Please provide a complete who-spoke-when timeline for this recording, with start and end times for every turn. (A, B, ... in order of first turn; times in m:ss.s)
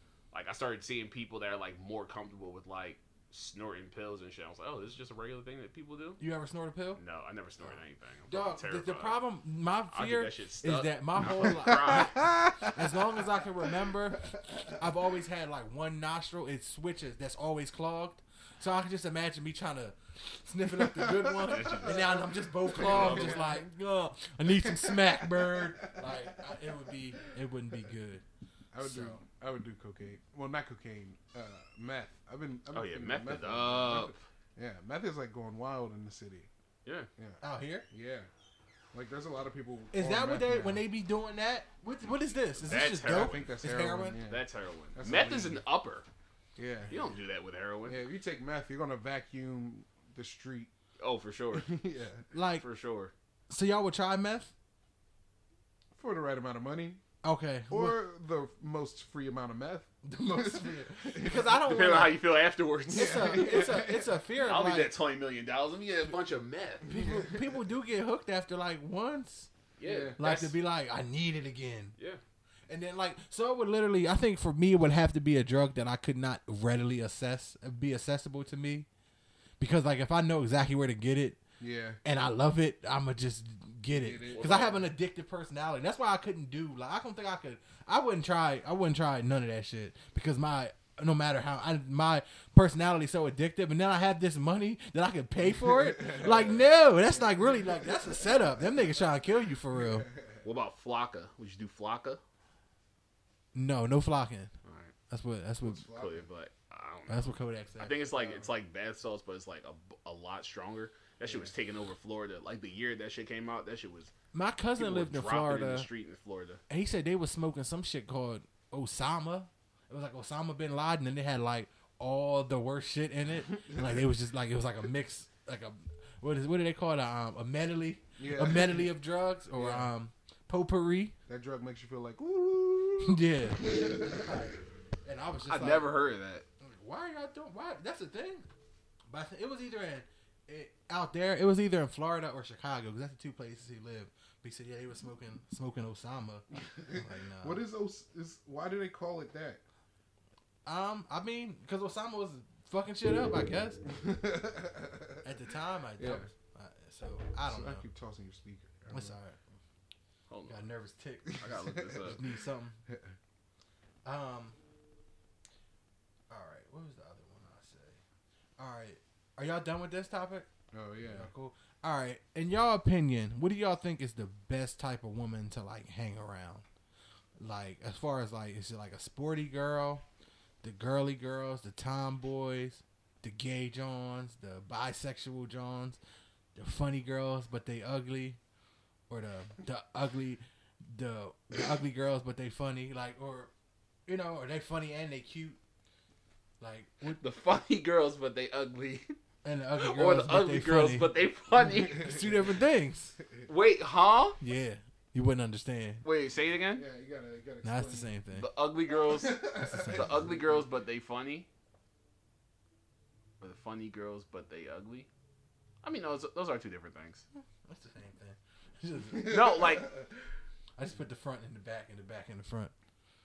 0:00.3-0:06.2 A
0:06.2-0:07.0 B
0:07.0-0:09.2 A
0:08.3-0:28.2 B
0:09.9-0:12.3 A
0:11.2-0:12.8 C
0:20.8-0:23.6 C
0:21.5-0:22.0 A
0:22.8-0:23.4 A
0:24.5-0:26.3 C
0:28.7-0:36.5 C
0:28.8-0:29.2 B
0:32.7-0:34.1 A
0:37.2-0:38.3 C
0:37.4-0:37.9 B
0:38.9-0:40.8 C
0:39.9-0:44.2 B
0:42.7-0:43.5 A
0:42.9-0:44.4 C
0:44.3-0:46.0 A
0:44.9-0:45.6 C
0:46.6-0:47.2 C
0:46.9-0:48.0 A
0:47.8-0:50.7 C
0:51.0-0:51.7 A
0:51.5-0:52.2 C
0:52.3-0:52.6 B
0:52.6-0:53.1 A
0:53.5-0:54.5 B
0:56.0-0:57.0 C
0:57.2-0:58.0 B
0:57.7-1:01.6 C
1:00.0-1:02.2 B
1:01.6-1:03.7 A
1:02.9-1:04.2 C
1:02.9-1:04.9 B
1:04.4-1:06.9 A
1:06.8-1:07.6 C
1:06.9-1:09.5 B
1:09.8-1:10.5 A
1:09.8-1:10.2 C
1:10.2-1:12.0 B
1:12.7-1:18.9 B
1:19.6-1:21.4 B
1:21.6-1:22.0 C
1:22.0-1:40.1 B
1:23.9-1:24.8 C
1:24.3-1:24.8 A
1:35.4-1:38.5 C
1:39.7-1:40.4 C
1:40.4-1:42.2 A
1:43.5-1:44.5 B
1:44.6-1:44.9 A
1:45.1-1:45.8 B
1:45.6-1:46.2 C
1:45.9-1:54.1 A
1:47.1-1:48.0 B
1:48.1-1:48.5 C
1:54.3-1:55.9 B
1:54.8-1:56.6 A
1:56.7-2:11.1 B
2:03.6-2:04.0 C
2:08.2-2:08.9 C
2:09.5-2:09.9 C
2:11.3-2:14.3 C
2:13.0-2:15.9 B
2:15.4-2:16.4 A
2:16.6-2:18.5 B
2:19.1-2:27.6 B
2:26.8-2:29.6 C
2:30.6-2:33.8 B
2:33.9-2:35.2 C
2:35.2-2:37.8 B
2:36.0-2:36.3 C
2:37.4-2:39.2 C
2:38.9-2:39.4 B
2:40.3-2:40.7 A
2:40.4-2:42.8 B
2:41.3-2:42.2 C
2:41.4-2:42.2 A
2:42.9-2:43.2 C
2:44.0-2:44.6 B
2:46.3-2:48.0 B
2:48.6-2:50.5 B
2:50.7-2:51.3 C
2:51.0-2:56.6 B
2:57.4-3:00.0 B
3:00.6-3:06.0 B
3:06.6-3:08.4 B
3:09.1-3:13.5 B
3:14.1-3:15.6 B
3:16.6-3:17.2 B
3:17.1-3:19.1 A
3:19.4-3:21.1 B
3:19.8-3:22.1 A
3:21.6-3:22.3 C
3:21.8-3:23.2 B
3:23.2-3:23.4 C
3:23.5-3:24.4 A
3:24.4-3:26.0 B
3:26.0-3:26.8 A
3:26.7-3:28.1 C
3:27.6-3:28.5 B
3:28.4-3:31.5 A
3:28.9-3:30.6 C
3:29.6-3:30.2 B
3:33.4-3:35.1 A
3:35.8-3:37.2 A
3:37.6-3:39.4 B
3:39.1-3:40.1 C
3:39.2-3:39.9 A
3:40.8-3:42.7 B